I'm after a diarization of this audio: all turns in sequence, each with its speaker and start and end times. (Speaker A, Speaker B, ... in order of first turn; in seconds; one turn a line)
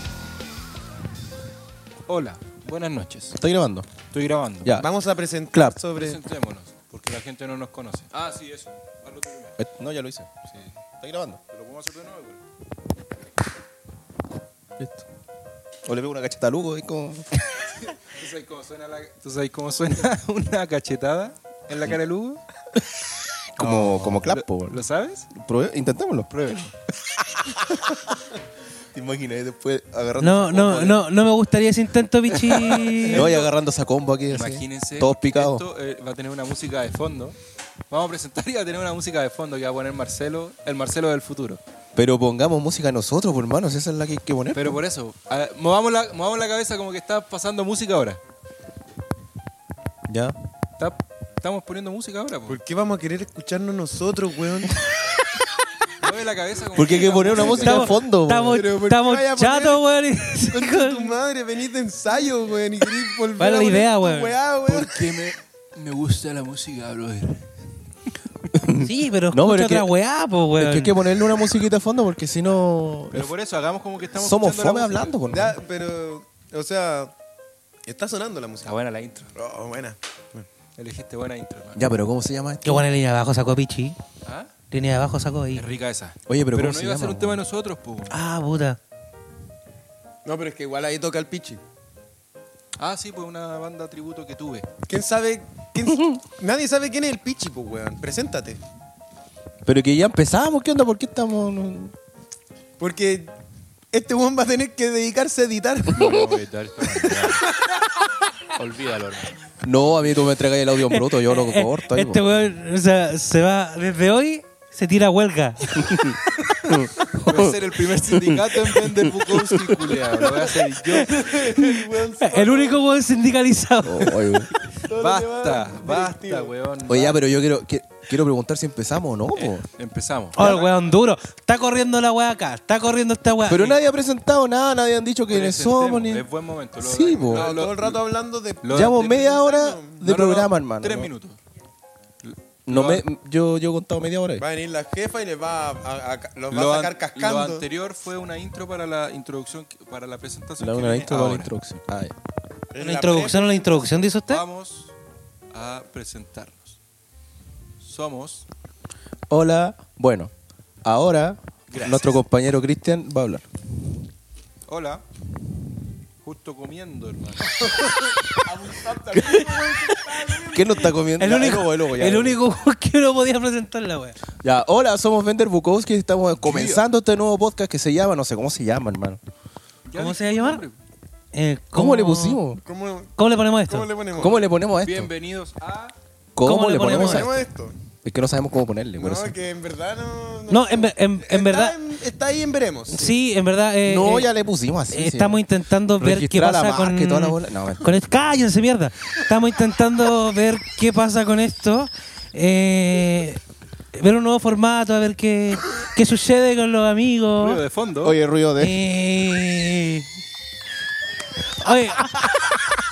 Speaker A: 2.1-3.4
Speaker B: 3.4-3.9
Speaker A: 4.1-4.7
Speaker C: 4.8-6.2
Speaker B: 5.5-5.8
Speaker A: 5.9-9.6
Speaker B: 9.6-10.4
Speaker B: 11.0-11.4
Speaker A: 11.5-12.4
Speaker B: 14.8-15.1
Speaker B: 15.8-17.4
Speaker A: 17.8-22.4
Speaker A: 23.5-25.3
Speaker B: 23.6-26.3
Speaker A: 26.3-26.7
Speaker B: 27.1-28.2
Speaker B: 28.9-31.0
Speaker D: 30.2-33.4
Speaker A: 32.3-33.4
Speaker B: 33.1-35.6
Speaker A: 34.3-37.4
Speaker A: 37.9-41.6
Speaker B: 41.9-44.8
Speaker A: 44.5-48.2
Speaker B: 50.1-50.3
Speaker A: 50.8-52.6
Speaker C: 52.5-54.8
Speaker A: 56.0-58.0
Speaker B: 56.7-58.6
Speaker D: 57.4-61.1
Speaker C: 58.5-65.1
Speaker D: 63.4-64.3
Speaker A: 64.7-67.5
Speaker B: 68.5-69.9
Speaker D: 68.8-71.0
Speaker B: 70.6-73.3
Speaker A: 73.1-75.1
Speaker B: 74.2-75.6
Speaker C: 75.3-77.1
Speaker C: 77.8-78.7
Speaker A: 78.6-79.3
Speaker C: 79.3-80.5
Speaker A: 80.8-81.8
Speaker B: 81.7-82.9
Speaker D: 82.6-84.0
Speaker A: 84.2-84.5
Speaker D: 84.7-85.7
Speaker A: 85.5-88.2
Speaker B: 86.3-87.4
Speaker D: 88.1-88.8
Speaker C: 90.2-91.6
Speaker A: 92.8-94.7
Speaker C: 94.9-98.6
Speaker B: 95.8-96.2
Speaker B: 99.6-101.9
Speaker C: 102.8-103.3
Speaker C: 103.9-106.4
Speaker A: 105.9-107.5
Speaker A: 108.5-109.4
Speaker B: 109.6-112.2
Speaker D: 110.9-116.0
Speaker B: 115.8-120.0
Speaker A: 117.1-121.3
Speaker C: 121.0-122.8
Speaker D: 121.2-124.2
Speaker B: 123.8-124.5
Speaker A: 124.7-127.2
Speaker C: 124.8-126.5
Speaker B: 126.8-129.6
Speaker A: 129.3-130.7
Speaker D: 130.3-133.7
Speaker B: 133.5-136.2
Speaker A: 135.3-138.0
Speaker B: 136.8-137.5
Speaker C: 137.3-140.0
Speaker A: 138.6-139.5
Speaker B: 138.7-141.1
Speaker A: 140.0-141.4
Speaker A: 142.2-143.0
Speaker B: 142.7-144.4
Speaker C: 144.4-147.6
Speaker A: 146.5-151.5
Speaker B: 150.6-152.1
Speaker C: 152.7-154.1
Speaker D: 152.8-154.4
Speaker A: 154.3-154.9
Speaker A: 155.5-156.8
Speaker A: 157.8-158.4
Speaker B: 159.3-160.3
Speaker B: 160.8-163.4
Speaker A: 161.7-162.2
Speaker A: 164.7-165.0
Speaker A: 166.2-167.5
Speaker C: 167.5-170.9
Speaker D: 169.2-170.0
Speaker B: 170.5-172.4
Speaker D: 171.2-174.2
Speaker B: 174.4-179.2
Speaker A: 176.4-176.8
Speaker A: 179.9-180.8
Speaker D: 179.9-180.6
Speaker D: 181.3-182.4
Speaker B: 181.7-182.6
Speaker C: 182.6-184.4
Speaker D: 183.2-183.9
Speaker B: 184.1-185.1
Speaker A: 184.2-185.9
Speaker B: 186.3-187.3
Speaker D: 186.4-187.4
Speaker C: 186.8-187.8
Speaker B: 188.0-189.3
Speaker C: 189.0-193.1
Speaker D: 190.5-191.8
Speaker D: 192.9-194.3
Speaker B: 193.8-195.4
Speaker D: 194.9-203.4
Speaker B: 196.0-197.9
Speaker D: 203.9-207.6
Speaker A: 207.4-208.2
Speaker B: 208.0-208.8
Speaker D: 208.6-210.1
Speaker D: 211.4-212.6